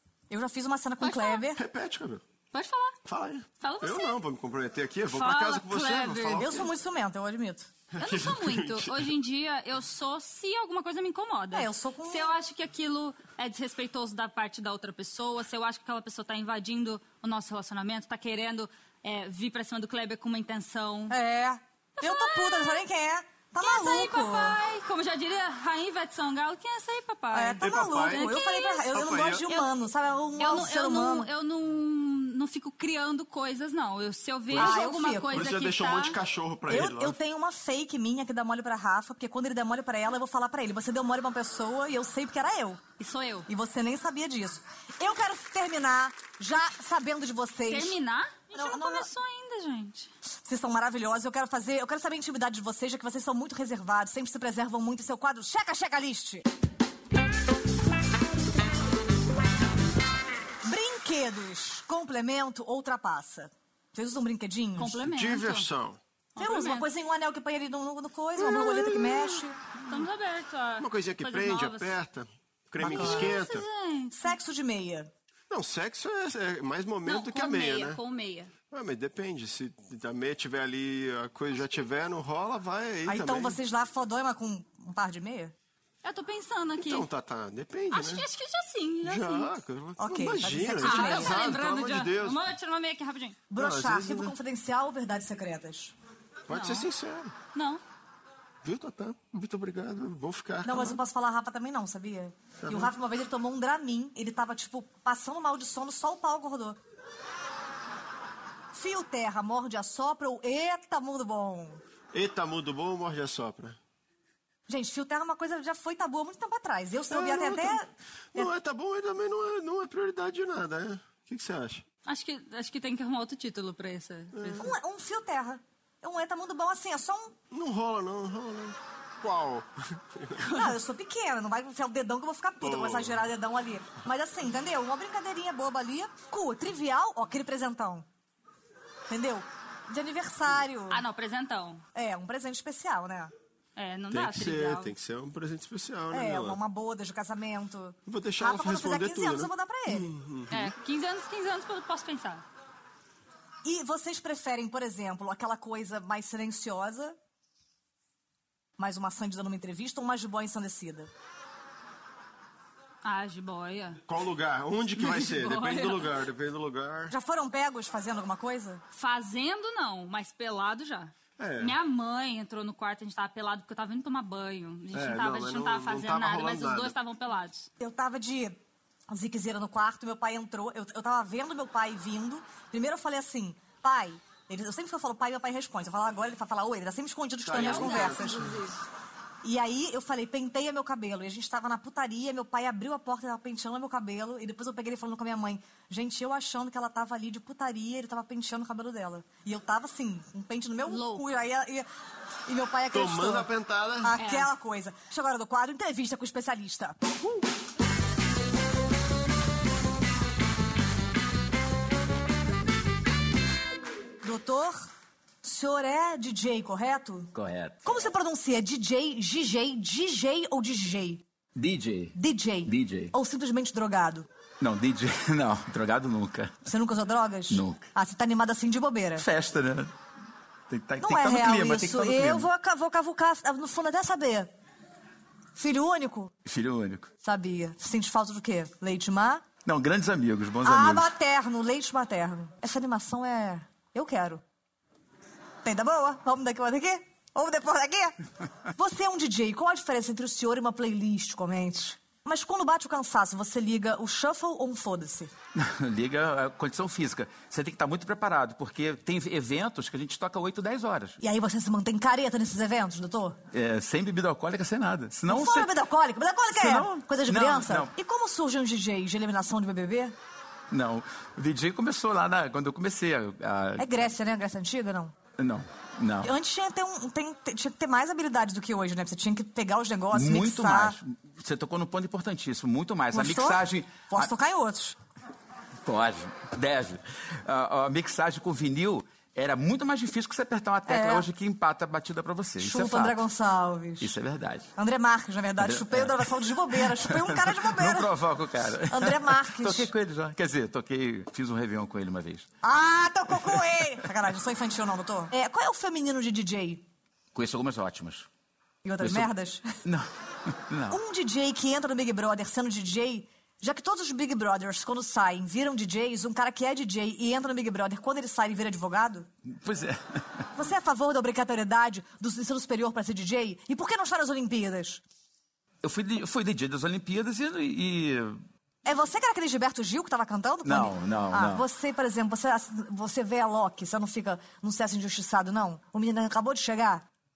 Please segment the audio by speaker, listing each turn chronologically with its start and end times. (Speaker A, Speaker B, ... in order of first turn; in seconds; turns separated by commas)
Speaker A: 0.3-1.6, Speaker B: 1.0-1.4, Speaker C: 1.6-2.2, Speaker B: 2.5-3.0, Speaker C: 3.0-6.7, Speaker B: 3.6-4.2, Speaker B: 5.1-6.5, Speaker A: 6.3-7.7, Speaker C: 7.9-9.1, Speaker B: 8.0-21.1, Speaker A: 11.5-12.3, Speaker A: 21.1-24.6, Speaker B: 22.0-22.8, Speaker B: 23.6-28.9, Speaker A: 27.3-31.3, Speaker C: 27.6-28.3, Speaker C: 28.9-29.6, Speaker B: 30.4-36.2, Speaker C: 34.5-37.2, Speaker A: 34.5-35.4, Speaker A: 36.7-42.8, Speaker B: 43.0-43.5, Speaker A: 43.5-48.0, Speaker B: 47.7-50.1, Speaker A: 48.5-49.1, Speaker A: 50.4-56.5, Speaker A: 60.6-65.0, Speaker B: 64.8-65.7, Speaker C: 65.0-66.0, Speaker B: 66.3-66.9, Speaker A: 66.4-69.6, Speaker B: 68.4-72.0, Speaker C: 70.8-73.6, Speaker A: 72.8-73.4, Speaker B: 72.8-74.3, Speaker A: 74.1-75.1, Speaker C: 75.5-78.0, Speaker B: 77.0-78.5, Speaker C: 78.7-83.6, Speaker A: 83.0-85.5, Speaker B: 86.0-87.1, Speaker C: 86.8-88.2, Speaker B: 87.9-89.5, Speaker C: 89.0-92.5, Speaker A: 90.0-91.5, Speaker B: 90.8-93.4, Speaker A: 93.5-95.9, Speaker C: 93.6-94.3, Speaker C: 96.5-97.3, Speaker B: 96.5-96.9, Speaker B: 97.5-97.8, Speaker C: 98.6-101.0, Speaker A: 100.6-106.8, Speaker C: 102.6-102.9, Speaker A: 108.7-111.8, Speaker C: 112.1-113.8, Speaker A: 114.7-118.5, Speaker C: 117.1-117.8, Speaker C: 118.3-121.8, Speaker B: 122.0-124.7, Speaker C: 124.3-124.7, Speaker A: 124.6-127.3, Speaker C: 127.5-130.4, Speaker B: 130.4-130.7, Speaker A: 130.5-138.1, Speaker C: 132.6-133.2, Speaker A: 139.1-141.0, Speaker B: 140.9-141.8, Speaker A: 141.9-143.3, Speaker B: 143.8-144.9, Speaker C: 144.1-146.6, Speaker A: 146.1-150.1, Speaker C: 148.1-150.7, Speaker B: 150.5-152.4, Speaker A: 153.6-157.2, Speaker A: 158.8-161.1, Speaker B: 163.0-164.0, Speaker C: 164.1-167.1, Speaker B: 164.9-166.1, Speaker A: 167.1-168.8, Speaker B: 168.9-177.7, Speaker C: 171.4-171.8, Speaker C: 174.9-176.9, Speaker A: 177.8-178.6, Speaker A: 179.1-188.5, Speaker C: 187.4-188.6, Speaker B: 187.5-188.8, Speaker A: 189.4-201.9, Speaker B: 200.9-201.3, Speaker A: 202.5-203.5, Speaker C: 202.9-204.1, Speaker A: 204.0-207.4, Speaker B: 204.2-204.5, Speaker A: 214.2-214.9, Speaker A: 215.4-217.3, Speaker D: 217.3-217.8, Speaker A: 217.8-221.2, Speaker D: 221.6-222.1, Speaker A: 222.1-224.2, Speaker D: 222.7-223.1, Speaker D: 224.6-226.7, Speaker A: 226.7-229.2, Speaker D: 227.5-227.8, Speaker D: 229.2-229.9, Speaker D: 230.7-232.5, Speaker A: 231.0-234.5, Speaker A: 235.6-236.3, Speaker D: 236.4-237.1, Speaker A: 237.2-239.4, Speaker D: 239.6-241.1, Speaker A: 240.6-244.4, Speaker A: 245.6-248.2, Speaker A: 248.8-255.3, Speaker D: 255.5-261.2, Speaker A: 261.2-263.4, Speaker D: 263.5-265.7, Speaker A: 265.3-270.1, Speaker D: 266.5-267.9, Speaker D: 270.7-274.1, Speaker A: 273.8-275.1, Speaker D: 275.4-276.3, Speaker A: 276.2-281.0, Speaker D: 280.1-284.3, Speaker A: 283.1-285.0, Speaker D: 285.8-293.2, Speaker A: 290.9-291.3, Speaker A: 292.6-294.1, Speaker D: 294.0-294.7, Speaker A: 294.8-298.1, Speaker D: 295.6-302.5, Speaker A: 298.9-299.9, Speaker A: 302.6-306.8, Speaker D: 307.3-308.3, Speaker A: 308.8-309.6, Speaker D: 309.0-309.3, Speaker D: 309.8-311.0, Speaker A: 310.9-319.3, Speaker D: 319.5-320.5, Speaker A: 320.5-325.0, Speaker D: 325.8-328.4, Speaker A: 328.8-337.0, Speaker D: 330.6-331.6